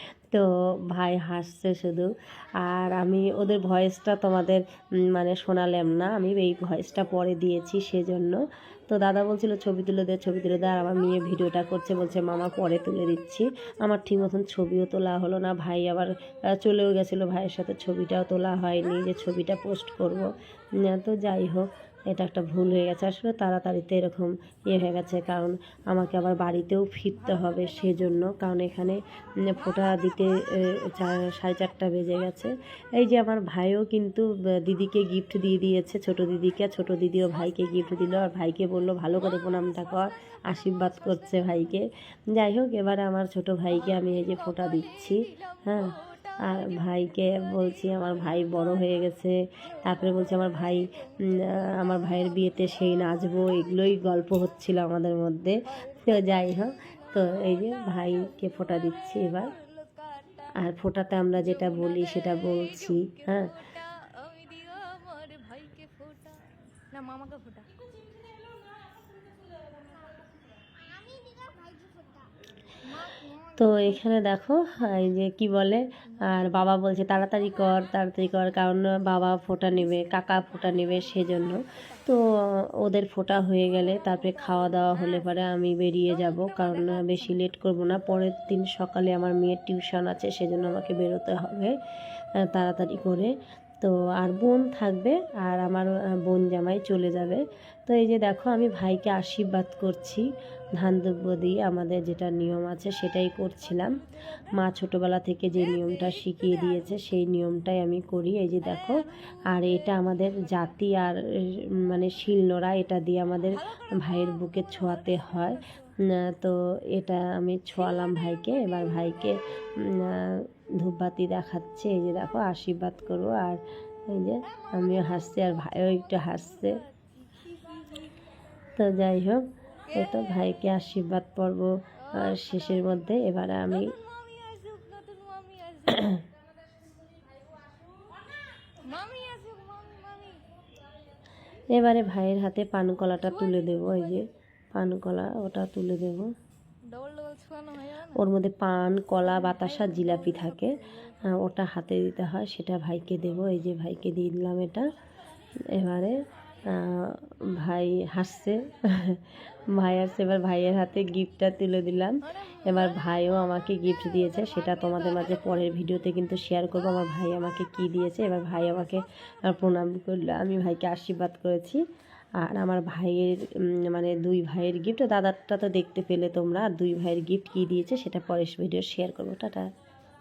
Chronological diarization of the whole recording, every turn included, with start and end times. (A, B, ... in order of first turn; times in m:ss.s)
0:00.3-0:59.5 A
0:46.0-0:46.5 B
0:55.9-0:56.1 B
0:59.5-1:00.4 B
1:00.6-1:03.5 A
1:03.0-1:08.1 B
1:10.7-1:12.1 B
1:12.9-1:13.4 B
1:13.6-1:31.8 A
1:32.4-1:44.0 A
1:44.5-2:06.8 A
2:06.8-2:08.1 B
2:08.8-2:14.0 A
2:13.9-2:16.2 B
2:15.9-2:16.2 A
2:17.8-2:20.5 B
2:21.7-2:26.3 A
2:26.9-2:28.1 B
2:28.1-2:34.9 A
2:35.7-2:51.8 A
2:52.4-2:59.7 A